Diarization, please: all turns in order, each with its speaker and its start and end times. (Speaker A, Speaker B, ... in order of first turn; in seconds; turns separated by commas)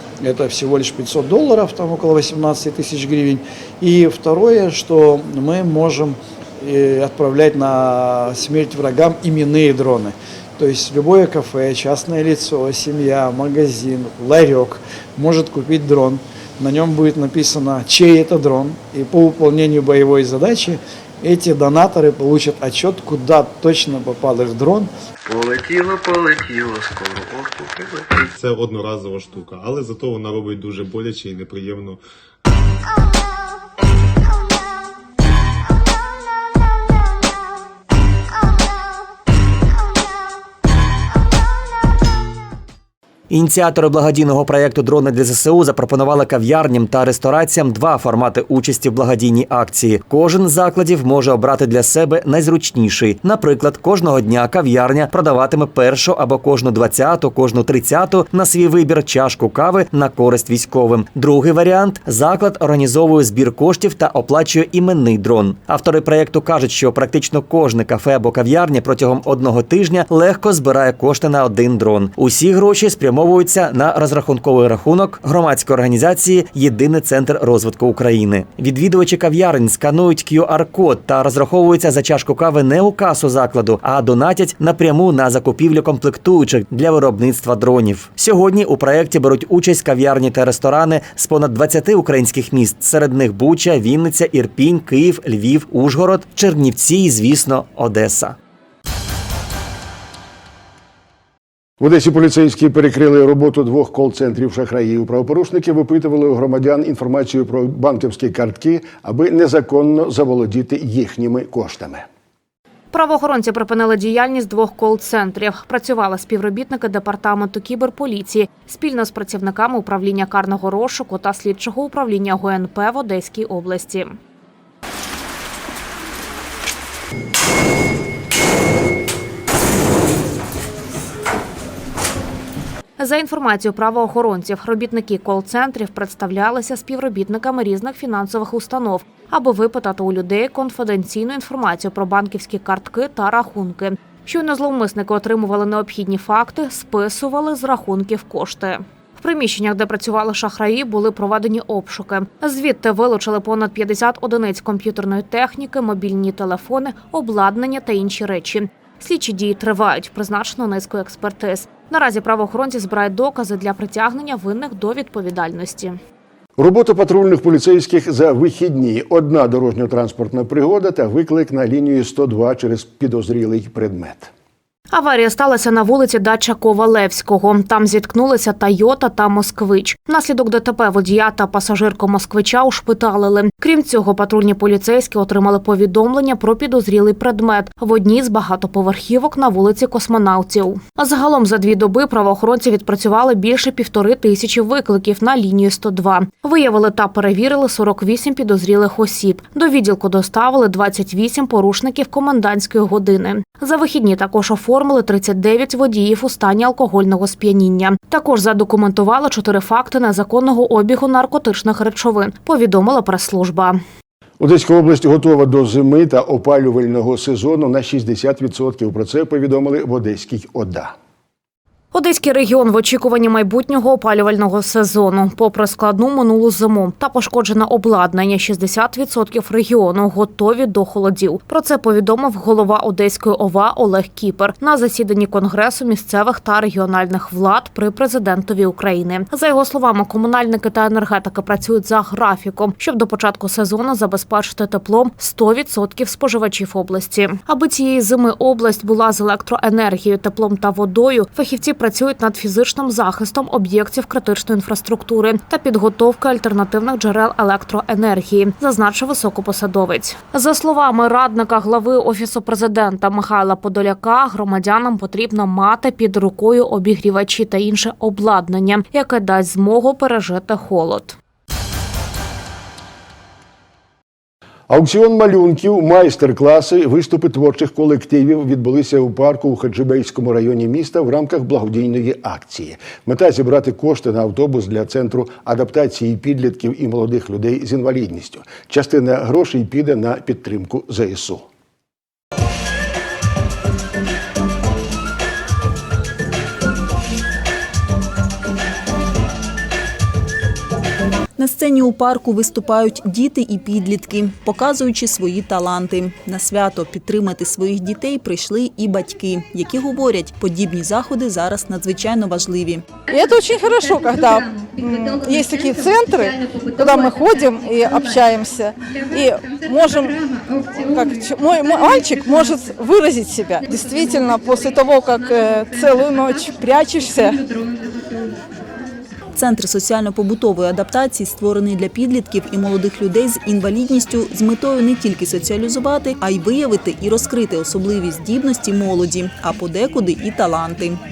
Speaker A: 0.2-24.9, Speaker B: 25.3-28.2, Speaker C: 28.3-32.0, Speaker D: 43.3-98.3, Speaker E: 101.8-112.0, Speaker F: 112.9-124.2, Speaker F: 133.0-166.0, Speaker E: 166.6-174.3, Speaker F: 174.9-213.8, Speaker E: 214.4-220.9, Speaker F: 221.9-271.1, Speaker E: 274.7-291.4, Speaker G: 301.4-312.9, Speaker H: 313.1-320.2, Speaker H: 320.7-327.4, Speaker G: 329.3-341.0